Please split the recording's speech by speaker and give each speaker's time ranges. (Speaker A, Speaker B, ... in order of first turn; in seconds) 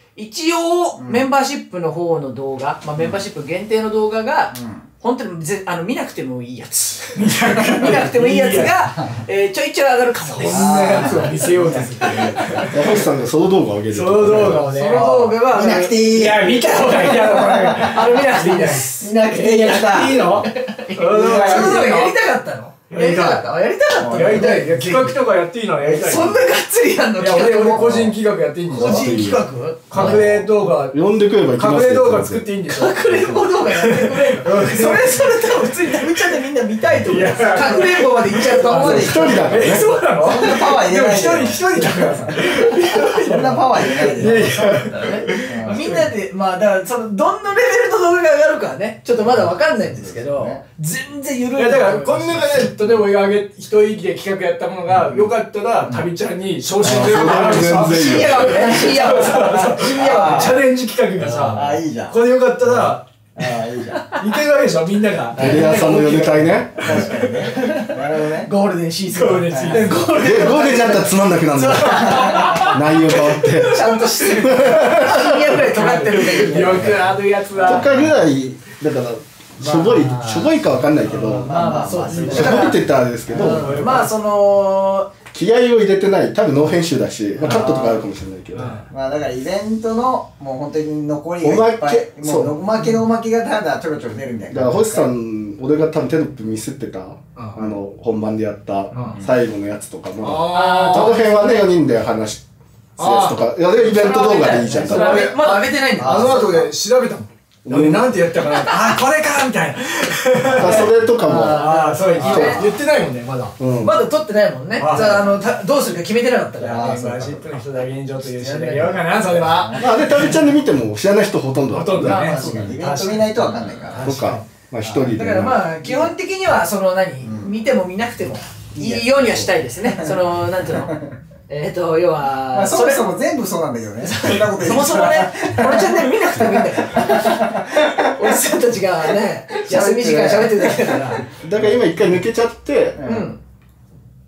Speaker A: 0.2-12.7, 14.3-19.1, 20.4-25.2, 25.8-28.1, 28.7-30.3, 32.7-39.6, 44.2-52.8, 56.9-60.6, 61.2-61.7, 65.3-78.0, 79.6-80.5, 81.3-82.8, 83.3-85.1, 87.5-87.7, 100.5-101.7, 103.8-106.6, 108.5-108.7, 110.5-112.7, 113.7-117.0, 118.2-120.4, 122.0-122.8, 125.1-133.1, 134.0-141.3, 143.0-143.4
Speaker B: 1.0-1.3, 3.0-3.2, 4.5-4.9, 8.7-9.0, 10.4-12.7, 14.7-18.1, 19.0-20.5, 21.2-21.9, 24.0-24.7, 27.7-28.1, 37.5-37.9, 38.4-45.9, 49.2-50.6, 54.9-55.3, 55.8-56.1, 59.3-60.6, 61.5-64.2, 66.7-68.5, 69.5-70.0, 71.8-72.7, 76.3-77.0, 81.2-82.8, 87.4-88.0, 88.9-95.1, 105.4-106.7, 114.8-115.5, 116.6-117.6, 122.0-124.2, 124.8-125.2, 125.8-126.1, 127.2-127.6, 128.8-131.1, 132.5-138.1, 139.6-141.8, 143.0-143.3
Speaker C: 7.2-8.8, 10.2-13.0, 13.9-15.1, 16.1-22.1, 22.9-23.5, 24.0-26.4, 27.2-29.1, 29.9-36.1, 36.9-46.1, 51.6-66.1, 66.8-67.4, 69.1-70.5, 71.8-78.2, 81.0-82.4, 83.3-84.1, 87.4-87.8, 88.5-88.9, 97.4-97.6, 98.9-99.2, 100.2-101.2, 103.0-103.4, 104.7-113.5, 114.8-115.3, 116.6-120.4, 121.7-124.4
Speaker D: 12.7-14.7, 28.7-32.5, 38.7-39.9, 56.8-58.6, 65.4-66.9, 70.2-75.6, 77.7-81.5, 82.2-84.0, 85.3-88.8, 91.4-92.5, 94.5-102.4, 103.0-105.3, 107.7-108.2, 110.5-111.7, 112.2-112.7, 113.6-114.0, 119.8-122.3, 124.0-125.6, 141.4-143.0